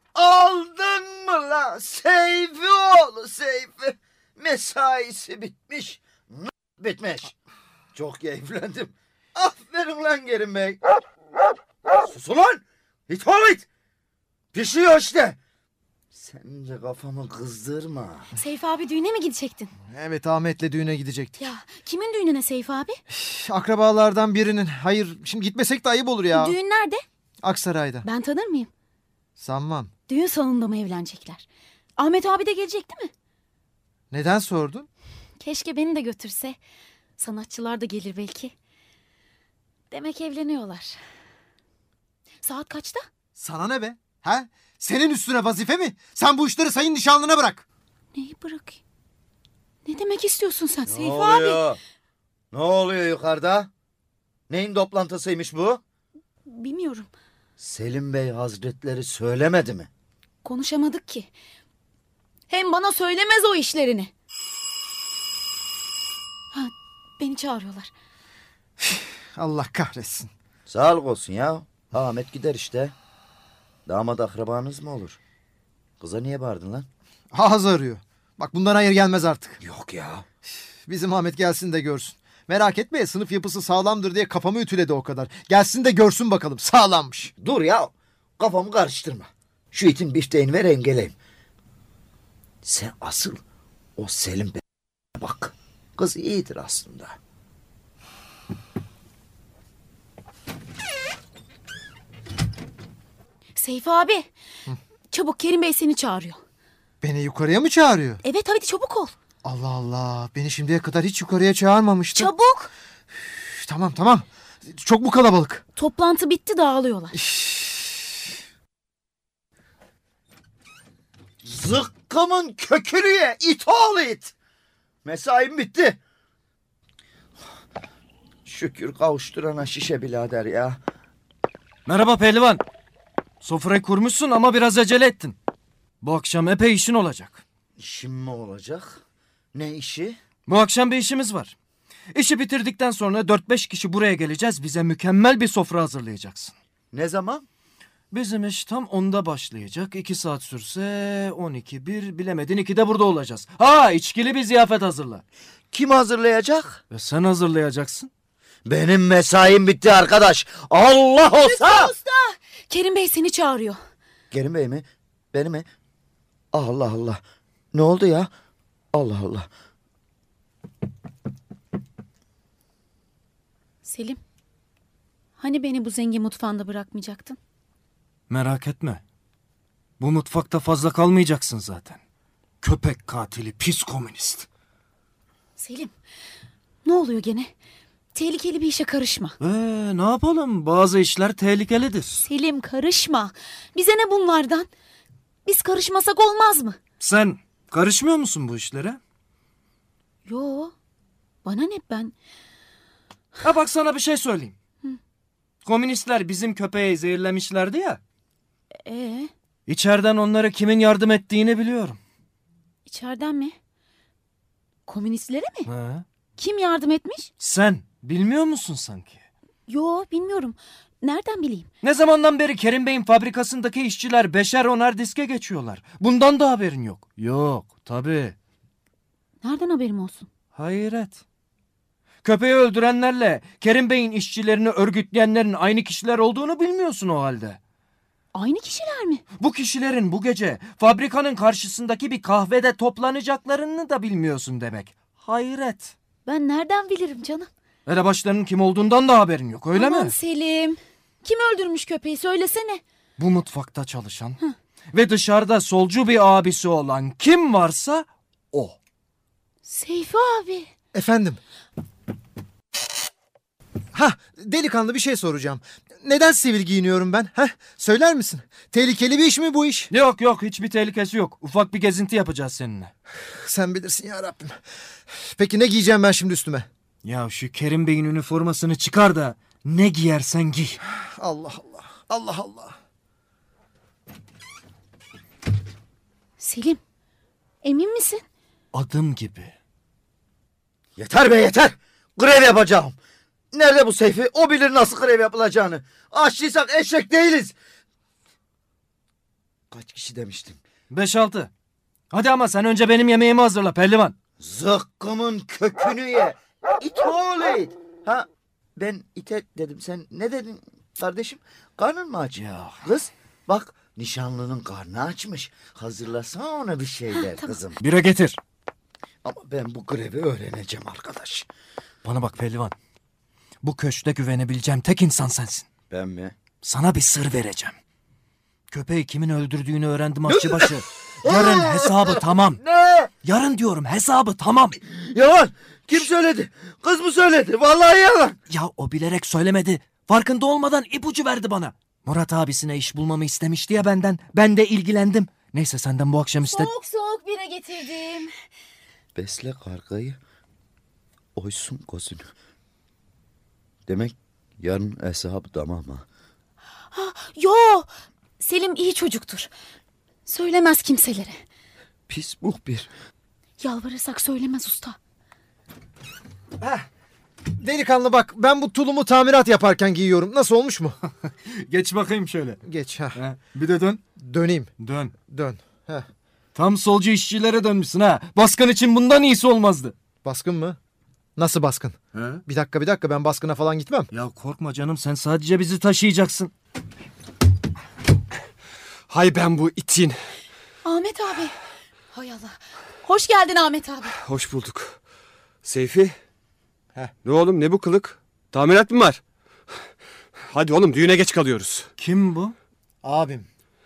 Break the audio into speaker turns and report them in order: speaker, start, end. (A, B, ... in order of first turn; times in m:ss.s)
0:00.2-0:07.4 A
0:07.9-0:10.8 A
0:11.9-0:13.7 A
0:14.5-0:15.4 A
0:16.1-0:18.3 A
0:18.4-0:19.7 B
0:19.9-0:21.5 C
0:21.4-0:23.0 B
0:23.1-0:26.6 C
0:26.3-0:27.0 B
0:27.4-0:28.1 C
0:28.0-0:28.7 B
0:29.4-0:29.9 C
0:30.1-0:31.4 B
0:32.0-0:33.1 B
0:34.1-0:34.9 C
0:35.4-0:36.6 B
0:37.2-0:38.5 B
0:39.9-0:41.0 B
0:42.4-0:43.1 B
0:43.4-0:47.6 C
0:48.2-0:48.8 B
0:49.8-0:51.6 B
0:50.8-0:51.8 A
0:52.5-0:53.7 A
0:54.5-0:55.8 A
0:56.5-0:57.1 B
0:57.6-0:59.9 A
1:00.4-1:01.3 B
1:02.5-1:04.1 B
1:06.5-1:07.9 B
1:08.8-1:10.3 C
1:10.7-1:12.9 A
1:13.9-1:15.2 A
1:16.0-1:16.9 A
1:17.3-1:19.6 C
1:19.6-1:20.3 A
1:20.9-1:27.3 C
1:27.4-1:31.2 A
1:32.6-1:33.4 A
1:34.0-1:34.6 A
1:35.2-1:37.2 A
1:43.6-1:44.3 B
1:45.1-1:46.4 B
1:47.0-1:48.2 C
1:48.2-1:49.1 B
1:49.4-1:52.3 C
1:52.2-1:52.7 B
1:53.4-1:55.6 C
1:55.8-1:57.1 B
1:57.1-1:57.9 C
2:01.4-2:04.3 A
2:05.0-2:06.0 A
2:08.5-2:10.8 A
2:11.9-2:12.6 D
2:13.4-2:15.4 D
2:16.0-2:17.4 D
2:17.8-2:19.0 A
2:19.5-2:20.2 A
2:20.5-2:21.5 D
2:22.1-2:26.5 D
2:26.9-2:27.5 A
2:28.1-2:35.2 D
2:35.7-2:36.8 A
2:36.9-2:38.1 D
2:38.7-2:42.0 A
2:41.4-2:43.8 B
2:44.3-2:45.7 A
2:46.5-2:47.2 A
2:47.7-2:48.3 A
2:48.9-2:49.5 A
2:53.8-2:54.2 B
2:55.4-2:57.4 B
2:58.3-2:59.0 D
3:00.0-3:02.0 D
3:02.6-3:04.5 D
3:05.6-3:05.9 B
3:06.8-3:07.5 B
3:08.1-3:09.3 B
3:09.4-3:12.3 D
3:12.4-3:14.7 B
3:15.4-3:16.8 B
3:17.0-3:19.0 D
3:20.3-3:20.7 B
3:21.4-3:22.1 B
3:23.4-3:24.6 D
3:25.6-3:28.0 D
3:28.8-3:29.3 B
3:29.7-3:32.0 D
3:32.9-3:33.6 B
3:34.9-3:35.7 B
3:35.6-3:36.0 D
3:36.4-3:37.3 B
3:37.4-3:39.2 D
3:39.7-3:41.7 B
3:41.8-3:48.4 D
3:49.4-3:50.3 B
3:50.6-3:51.2 D
3:52.2-3:57.6 D
3:58.3-3:59.2 B
3:59.4-4:05.9 D
4:06.2-4:07.5 B
4:07.9-4:10.2 D
4:10.0-4:12.8 B
4:13.2-4:14.4 D
4:14.9-4:18.8 D
4:19.6-4:20.7 B
4:20.9-4:21.4 C
4:23.9-4:29.9 C
4:29.9-4:32.9 D
4:33.4-4:34.6 C
4:35.2-4:36.7 C
4:37.0-4:40.8 D
4:41.2-4:42.8 C
4:46.4-4:46.8 B
4:47.6-4:48.2 B
4:48.7-4:49.6 D
4:51.0-4:53.0 A
4:53.5-4:57.6 A
4:59.7-5:00.6 A
5:00.9-5:01.5 D
5:02.1-5:04.2 D
5:04.4-5:17.8 A
5:12.4-5:12.8 D
5:17.8-5:18.4 D
5:19.2-5:21.5 A
5:22.0-5:22.7 D
5:23.6-5:25.7 D
5:25.9-5:26.4 A
5:26.6-5:27.8 D
5:28.7-5:32.6 D
5:30.3-5:33.1 A
5:33.2-5:34.8 D
5:34.9-5:38.4 A
5:38.5-5:46.7 D
5:46.7-5:48.3 B
5:49.2-5:50.2 A
5:51.4-5:52.3 A
5:53.9-5:56.0 A
5:56.9-5:57.9 B
5:58.4-5:59.5 B
6:00.3-6:01.4 B
6:02.1-6:02.9 A
6:03.6-6:05.0 B
6:06.6-6:06.9 C
6:07.6-6:11.0 C
6:11.3-6:12.6 D
6:12.7-6:13.2 C
6:13.1-6:14.0 D
6:14.2-6:14.7 C
6:14.8-6:15.2 D
6:15.3-6:16.1 C
6:16.5-6:19.9 D
6:20.2-6:20.8 C
6:21.4-6:24.1 C
6:22.1-6:22.4 D
6:24.1-6:26.5 D
6:29.1-6:30.2 E
6:30.9-6:31.5 B
6:32.1-6:34.1 B
6:34.1-6:35.0 E
6:35.6-6:36.1 E
6:37.2-6:39.2 E
6:40.5-6:41.9 E
6:42.0-6:42.6 D
6:43.0-6:43.5 C